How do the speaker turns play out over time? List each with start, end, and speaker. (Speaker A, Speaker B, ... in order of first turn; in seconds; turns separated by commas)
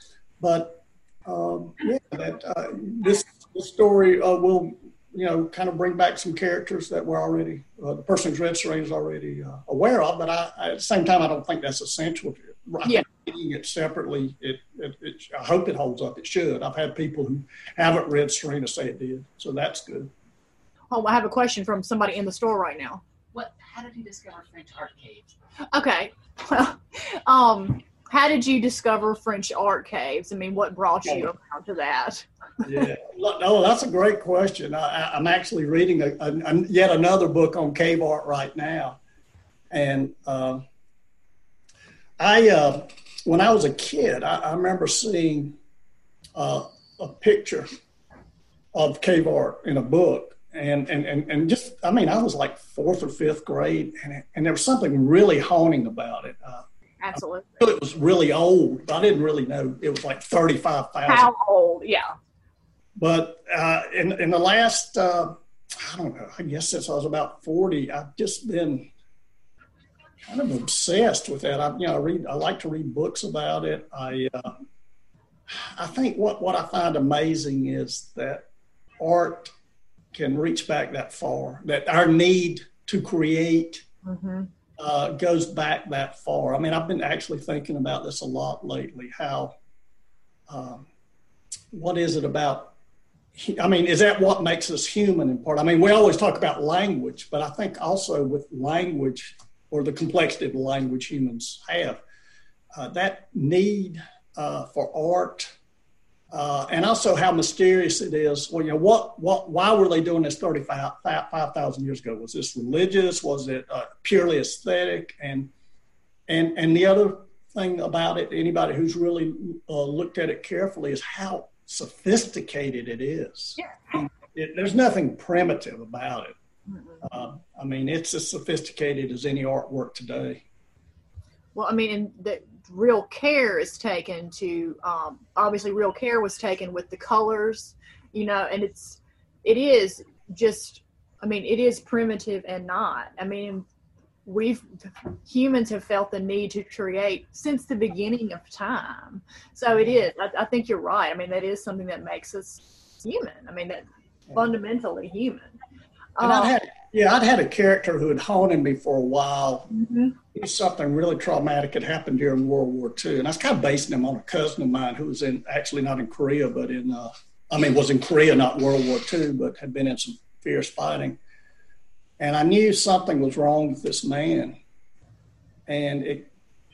Speaker A: 0.4-20.1, Speaker B: 20.9-23.0, Speaker C: 23.3-25.3, Speaker B: 25.7-32.8, Speaker A: 32.6-39.0, Speaker A: 39.7-40.6, Speaker A: 42.2-45.6, Speaker A: 46.4-47.7, Speaker A: 48.7-61.3, Speaker B: 57.0-57.5, Speaker B: 61.1-62.1, Speaker A: 63.0-68.9, Speaker A: 70.3-74.6, Speaker A: 75.5-78.5, Speaker A: 79.0-79.5, Speaker A: 80.1-83.8, Speaker B: 84.0-84.5, Speaker A: 84.8-89.5, Speaker A: 90.5-90.9, Speaker A: 91.7-92.7, Speaker A: 93.3-102.0, Speaker A: 102.8-105.5, Speaker A: 106.3-115.5, Speaker A: 116.3-126.3, Speaker B: 126.7-127.0, Speaker A: 127.0-130.4, Speaker B: 131.6-143.7, Speaker B: 144.2-155.6, Speaker B: 156.2-156.6, Speaker A: 156.2-159.7, Speaker B: 159.7-160.2, Speaker A: 160.3-171.2, Speaker A: 172.2-174.6, Speaker A: 175.7-176.3